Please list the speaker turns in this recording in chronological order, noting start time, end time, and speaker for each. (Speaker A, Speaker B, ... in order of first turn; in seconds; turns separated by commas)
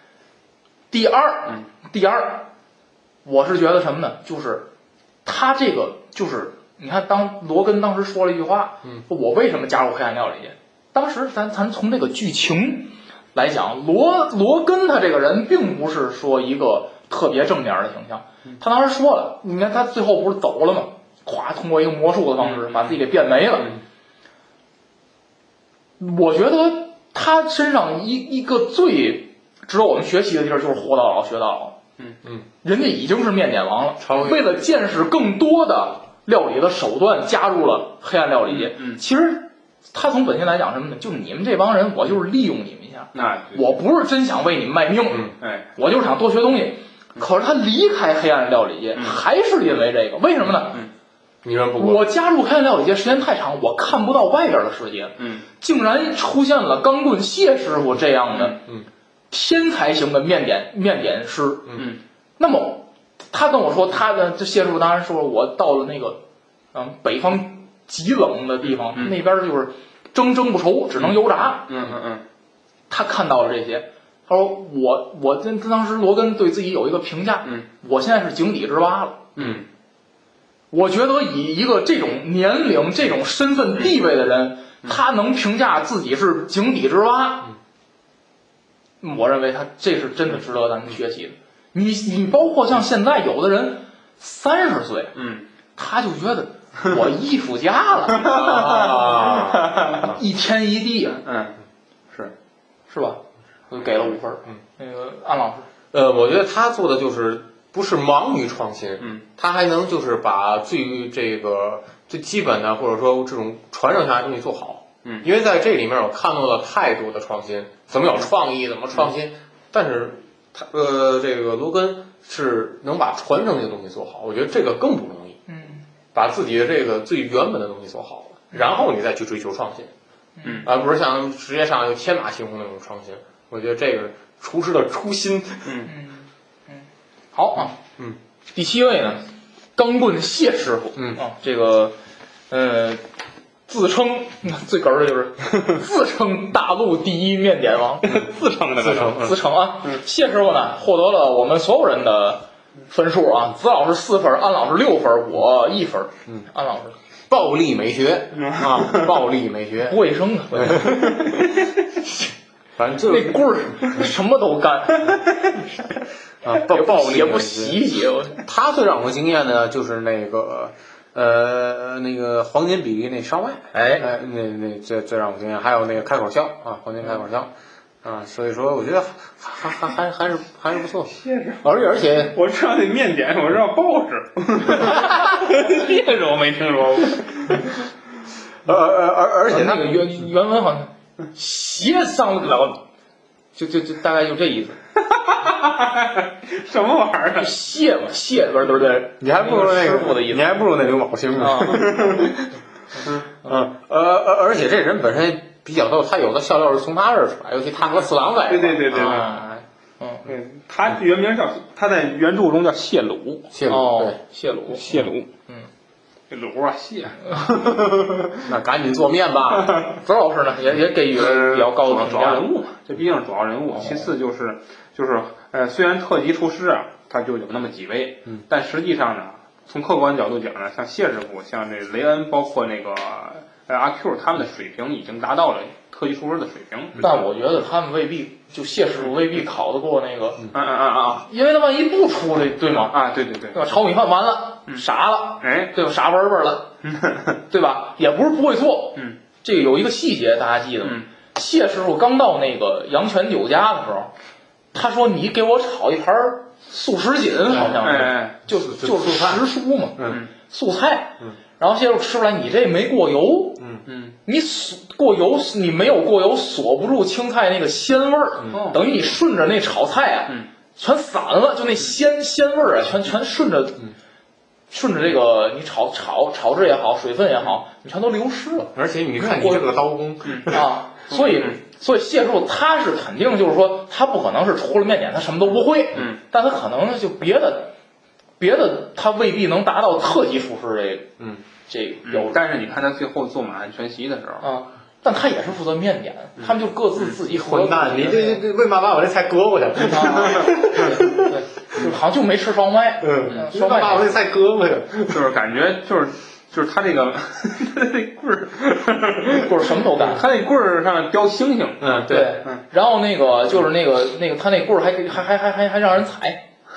Speaker A: 0.9-2.5, Speaker A: 3.2-4.7, Speaker A: 5.2-23.8, Speaker B: 22.4-23.0, Speaker A: 26.0-31.8, Speaker A: 32.6-50.8, Speaker C: 34.0-34.4, Speaker B: 38.5-39.0, Speaker B: 43.1-43.6, Speaker B: 45.4-45.7, Speaker B: 49.0-49.2, Speaker C: 51.4-52.0, Speaker A: 51.8-58.6, Speaker B: 55.2-55.5, Speaker B: 58.3-58.6, Speaker A: 59.3-61.7, Speaker A: 62.4-66.2, Speaker A: 66.7-71.7, Speaker B: 68.6-69.2, Speaker B: 71.0-72.2, Speaker A: 72.9-79.3, Speaker B: 79.4-79.7, Speaker A: 80.7-87.5, Speaker A: 89.0-95.1, Speaker B: 95.2-95.5, Speaker A: 95.8-98.6, Speaker C: 98.1-100.1, Speaker B: 98.2-100.2, Speaker A: 100.0-101.2, Speaker B: 101.2-101.5, Speaker A: 102.9-105.7, Speaker C: 105.9-125.4, Speaker A: 125.5-125.8, Speaker C: 126.1-129.9, Speaker A: 130.4-130.7, Speaker B: 130.4-130.7, Speaker C: 130.6-135.7, Speaker B: 135.7-135.9, Speaker A: 135.9-137.8, Speaker A: 138.6-142.0, Speaker C: 141.0-141.2, Speaker A: 142.5-143.0, Speaker A: 143.7-148.1, Speaker B: 148.0-149.4, Speaker C: 148.8-149.3, Speaker A: 149.2-156.9, Speaker C: 157.3-160.0, Speaker B: 158.3-159.2, Speaker A: 159.8-161.2, Speaker C: 160.5-161.3, Speaker C: 162.8-164.0, Speaker A: 163.1-165.6, Speaker C: 166.4-167.8, Speaker A: 166.6-168.4, Speaker C: 168.4-177.5, Speaker A: 173.7-174.1, Speaker C: 178.0-182.4, Speaker B: 181.2-187.8, Speaker C: 188.7-190.0, Speaker A: 189.5-192.8, Speaker A: 193.6-194.8, Speaker B: 195.0-197.5, Speaker A: 197.3-200.6, Speaker C: 199.2-202.1, Speaker A: 201.4-202.3, Speaker B: 201.8-202.3, Speaker C: 203.4-209.3, Speaker B: 208.5-209.5, Speaker A: 208.9-210.3, Speaker B: 210.2-213.5, Speaker C: 213.5-214.2, Speaker A: 213.7-214.8, Speaker B: 214.7-215.3, Speaker B: 216.3-218.5, Speaker C: 218.4-219.8, Speaker B: 219.6-219.9, Speaker A: 220.0-222.4, Speaker B: 221.1-237.1, Speaker A: 223.8-224.1, Speaker A: 237.0-240.5, Speaker B: 240.5-241.3, Speaker A: 241.3-243.0, Speaker B: 242.9-243.6, Speaker A: 243.5-246.7, Speaker B: 245.4-245.7, Speaker B: 246.8-247.4, Speaker A: 247.5-254.1, Speaker B: 250.8-251.1, Speaker A: 254.7-263.6, Speaker C: 257.5-257.8, Speaker B: 257.8-258.4, Speaker C: 258.6-259.4, Speaker C: 260.0-260.2, Speaker B: 263.9-264.2, Speaker A: 264.3-273.9, Speaker B: 268.5-268.8, Speaker A: 274.7-279.7, Speaker C: 278.7-280.6, Speaker B: 280.2-280.5, Speaker A: 280.5-287.7, Speaker B: 281.1-281.6, Speaker B: 285.9-286.2, Speaker A: 288.4-291.1, Speaker A: 291.7-292.4, Speaker B: 292.1-294.5, Speaker A: 294.4-298.4, Speaker C: 297.2-301.9, Speaker A: 299.8-304.2, Speaker C: 303.0-305.3, Speaker B: 305.1-312.6, Speaker A: 309.3-310.2, Speaker C: 311.8-312.3, Speaker A: 312.1-316.4